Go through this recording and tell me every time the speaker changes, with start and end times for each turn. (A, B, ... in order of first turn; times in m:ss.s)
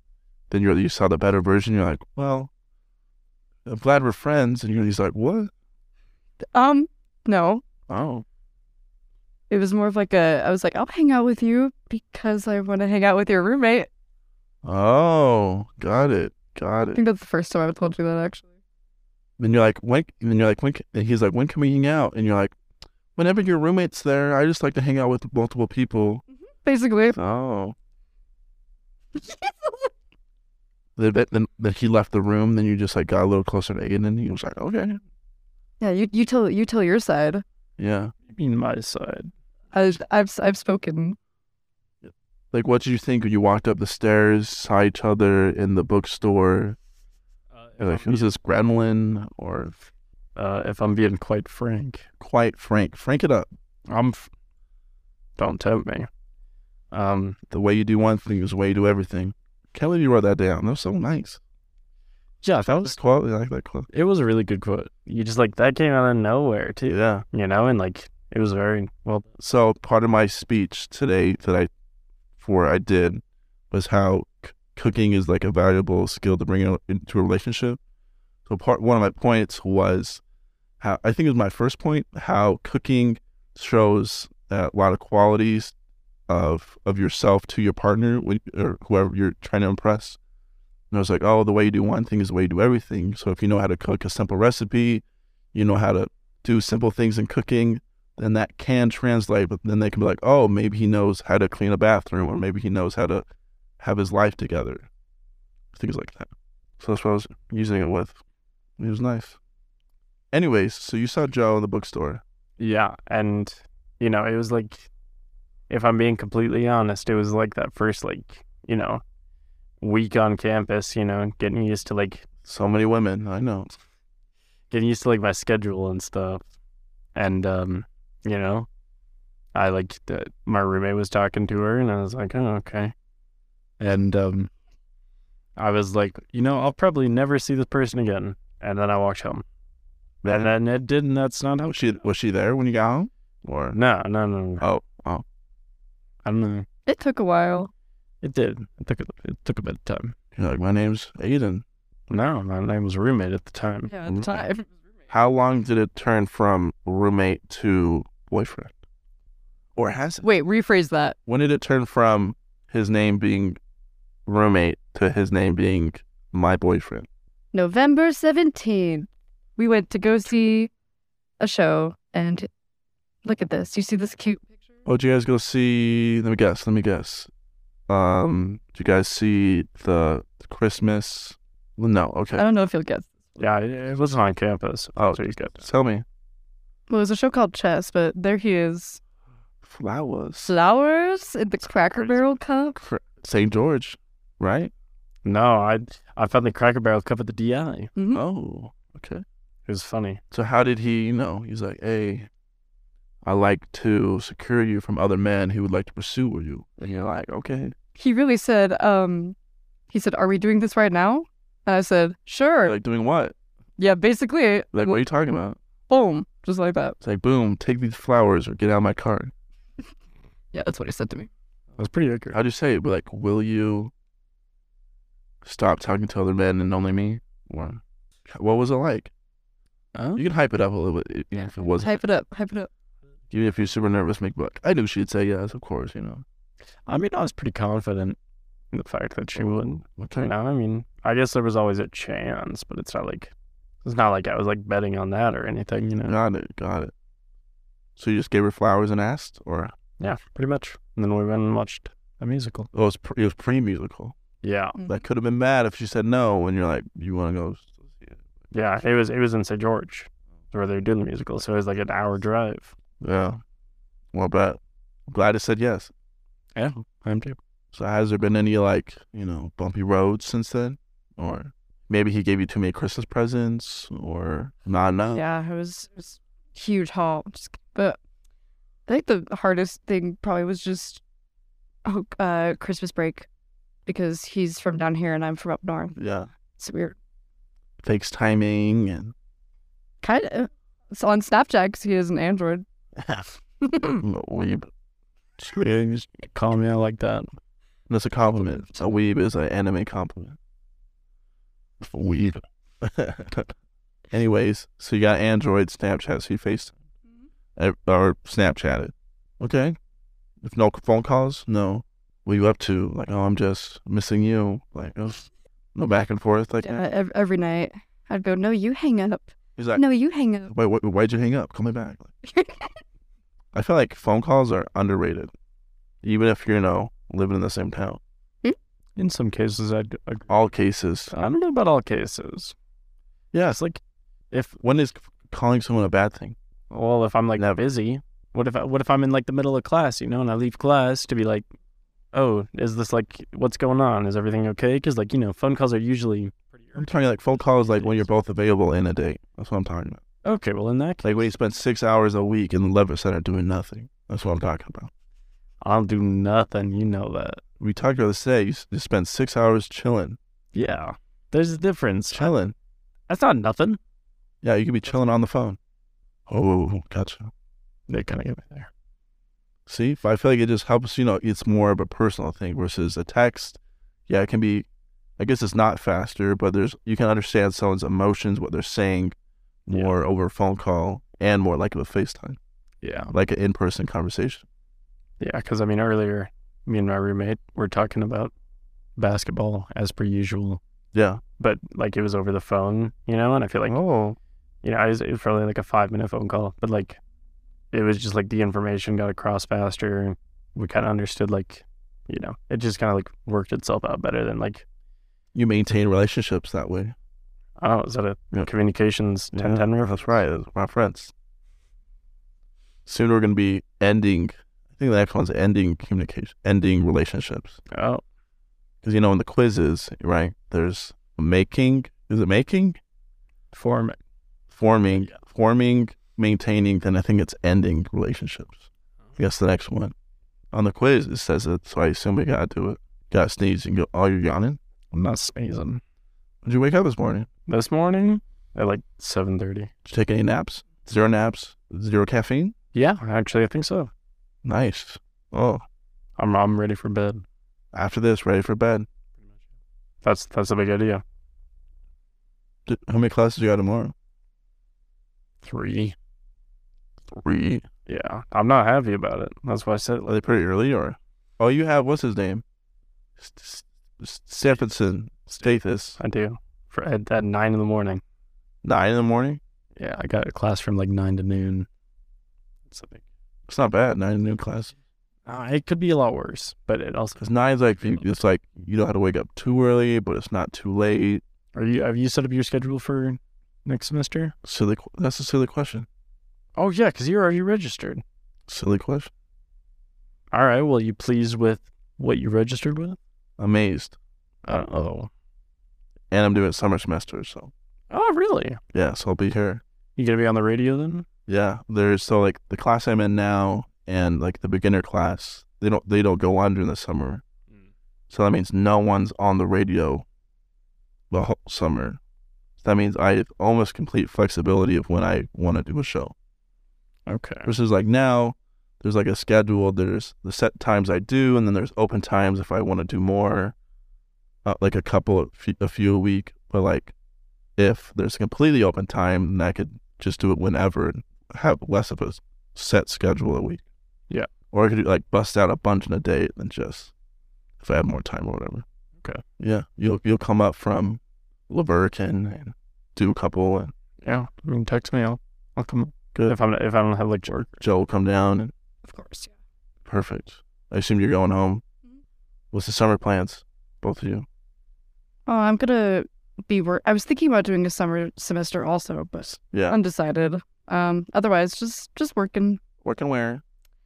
0:00.5-0:02.5 A
0:03.6-0:05.5 A
0:06.5-0:07.6 B
0:07.9-0:08.2 A
0:09.5-0:13.9 B
0:14.6-0:17.0 A
0:16.9-0:18.5 B
0:19.4-0:22.5 A
0:23.2-0:26.2 A
0:26.6-0:27.2 B
0:27.1-0:27.8 A
0:29.2-0:29.9 B
0:31.0-0:35.0 A
0:35.8-0:37.4 B
0:37.8-0:38.1 A
0:38.2-0:39.3 C
0:39.7-0:41.2 B
0:42.0-0:46.8 A
0:47.5-0:48.2 C
0:47.8-0:49.8 A
0:50.4-0:52.1 C
0:52.2-0:53.5 A
0:53.9-0:54.3 C
0:55.4-0:56.1 C
0:56.9-0:57.4 C
0:57.5-1:01.4 A
1:02.4-1:03.0 C
1:02.6-1:03.9 A
1:03.9-1:09.3 C
1:06.9-1:07.2 A
1:09.4-1:11.7 A
1:12.4-1:17.8 A
1:18.5-1:20.2 A
1:20.8-1:25.7 A
1:26.3-1:30.2 A
1:30.9-1:43.2 A
1:43.8-1:44.9 A
1:45.7-1:48.2 A
1:48.8-1:49.4 A
1:50.3-1:52.2 A
1:52.6-1:54.9 C
1:55.7-1:59.0 C
1:59.8-2:02.2 C
2:02.4-2:03.7 A
2:04.7-2:06.4 C
2:07.1-2:08.7 C
2:09.5-2:12.9 C
2:13.8-2:14.5 C
2:15.6-2:19.4 C
2:20.2-2:20.5 A
2:20.2-2:21.9 C
2:21.7-2:23.8 A
2:23.7-2:24.6 C
2:24.6-2:25.2 A
2:26.2-2:26.6 C
2:26.9-2:27.7 B
2:28.2-2:30.1 C
2:30.3-2:31.6 A
2:32.1-2:33.9 C
2:33.9-2:34.6 B
2:34.1-2:34.4 A
2:35.1-2:38.7 A
2:39.7-2:40.2 A
2:40.2-2:41.2 B
2:41.3-2:43.6 A
2:44.2-2:47.1 A
2:47.5-2:50.7 B
2:51.4-2:52.5 B
2:53.2-2:54.4 B
2:54.8-2:57.3 A
2:57.9-3:02.4 A
3:02.4-3:03.4 B
3:03.4-3:05.6 C
3:04.9-3:06.0 A
3:06.9-3:09.0 B
3:09.6-3:10.5 A
3:10.4-3:12.8 B
3:12.8-3:14.7 A
3:15.2-3:17.9 C
3:18.0-3:18.2 B
3:18.1-3:19.2 A
3:19.6-3:20.2 C
3:20.3-3:22.3 A
3:23.2-3:27.7 A
3:28.0-3:29.4 B
3:29.9-3:32.8 B
3:32.6-3:33.3 A
3:33.8-3:35.0 B
3:34.7-3:35.6 A
3:35.9-3:37.0 B
3:37.0-3:39.3 A
3:40.5-3:41.3 B
3:41.8-3:42.4 C
3:42.3-3:43.9 A
3:45.4-3:49.1 A
3:49.9-3:50.2 C
3:50.2-3:52.0 A
3:51.8-3:52.7 B
3:53.3-3:56.2 A
3:56.8-3:58.2 C
3:58.7-4:03.3 C
3:59.4-4:00.3 A
4:03.8-4:06.1 C
4:06.0-4:06.9 A
4:08.0-4:09.7 A
4:10.0-4:12.7 C
4:12.7-4:14.2 A
4:14.4-4:14.8 C
4:14.8-4:18.2 A
4:18.5-4:22.7 C
4:23.0-4:23.4 A
4:24.1-4:25.9 A
4:26.5-4:27.4 C
4:27.7-4:35.2 A
4:35.1-4:38.0 B
4:38.9-4:41.0 B
4:41.8-4:43.3 B
4:43.9-4:46.0 B
4:46.0-4:46.3 A
4:46.6-4:47.0 B
4:47.8-4:49.1 A
4:50.0-4:52.6 B
4:53.0-4:53.2 A
4:53.6-4:54.0 B
4:53.9-4:54.7 A
4:55.4-4:56.1 A
4:56.1-4:57.3 C
4:57.9-5:00.4 A
4:58.6-4:59.0 B
5:01.8-5:03.5 A
5:04.1-5:06.7 A
5:07.6-5:09.8 A
5:10.4-5:16.8 A
5:16.6-5:20.5 B
5:19.6-5:19.8 A
5:20.5-5:22.1 A
5:22.2-5:22.7 B
5:23.5-5:25.3 A
5:26.0-5:28.0 A
5:29.0-5:30.3 C
5:30.3-5:31.1 A
5:31.1-5:32.5 C
5:33.3-5:33.6 A
5:33.4-5:33.8 C
5:34.3-5:34.6 C
5:34.6-5:36.4 A
5:36.7-5:41.5 C
5:37.4-5:37.6 A
5:42.1-5:48.1 C
5:46.7-5:50.0 A
5:50.2-5:51.1 C
5:51.0-5:54.9 A
5:55.6-5:57.4 C
5:57.6-6:00.2 A
6:00.5-6:02.3 C
6:02.1-6:02.5 A
6:03.1-6:03.8 C
6:04.4-6:05.6 A
6:06.3-6:07.3 A
6:07.9-6:08.7 C
6:09.7-6:14.6 A
6:15.2-6:19.1 A
6:19.6-6:22.4 A
6:22.8-6:23.1 C
6:23.1-6:24.4 A
6:25.2-6:28.3 C
6:29.0-6:30.6 C
6:30.9-6:31.2 A
6:31.4-6:33.8 C
6:33.7-6:34.2 A
6:34.6-6:37.0 C
6:37.7-6:44.6 C
6:45.3-6:46.9 A
6:47.6-6:50.1 C
6:49.3-6:51.1 A
6:52.8-6:57.6 A
6:57.7-6:58.0 C
6:58.8-7:02.8 A
7:03.5-7:04.0 C
7:04.5-7:09.9 A
7:04.9-7:05.2 C
7:10.5-7:14.6 A
7:14.9-7:15.8 C
7:16.4-7:17.3 A
7:17.5-7:19.7 C
7:19.8-7:22.5 A
7:22.7-7:23.9 C
7:24.4-7:25.6 A
7:26.2-7:27.2 C
7:27.7-7:28.9 A
7:30.0-7:31.0 C
7:32.6-7:33.9 A
7:35.4-7:35.9 C
7:37.1-7:37.7 A
7:37.9-7:40.1 C
7:40.0-7:42.4 A
7:43.2-7:46.0 A
7:45.3-7:48.0 C
7:48.6-7:49.4 A
7:49.8-7:51.7 C
7:52.7-7:53.0 C
7:53.5-7:54.7 A
7:55.2-7:57.2 C
7:57.2-8:01.2 A
8:01.5-8:04.3 C
8:04.4-8:05.9 A
8:06.6-8:08.0 C
8:08.5-8:09.1 A
8:10.3-8:13.0 C
8:13.4-8:14.0 A
8:14.4-8:15.1 C
8:16.1-8:17.5 A
8:17.9-8:18.6 C
8:18.7-8:19.6 A
8:20.0-8:21.0 C
8:21.3-8:27.2 A
8:28.1-8:30.0 A
8:31.1-8:32.0 A
8:32.6-8:36.1 A
8:37.1-8:37.5 C
8:37.4-8:43.5 A
8:44.4-8:46.9 A
8:47.6-8:53.6 A
8:54.5-8:56.9 A
8:57.6-8:58.6 A
8:59.4-9:03.7 A
9:04.0-9:07.6 C
9:07.3-9:08.5 A
9:08.8-9:09.3 B
9:09.8-9:11.6 A
9:12.5-9:14.2 A
9:15.3-9:22.6 B
9:19.4-9:19.8 A
9:22.8-9:23.4 A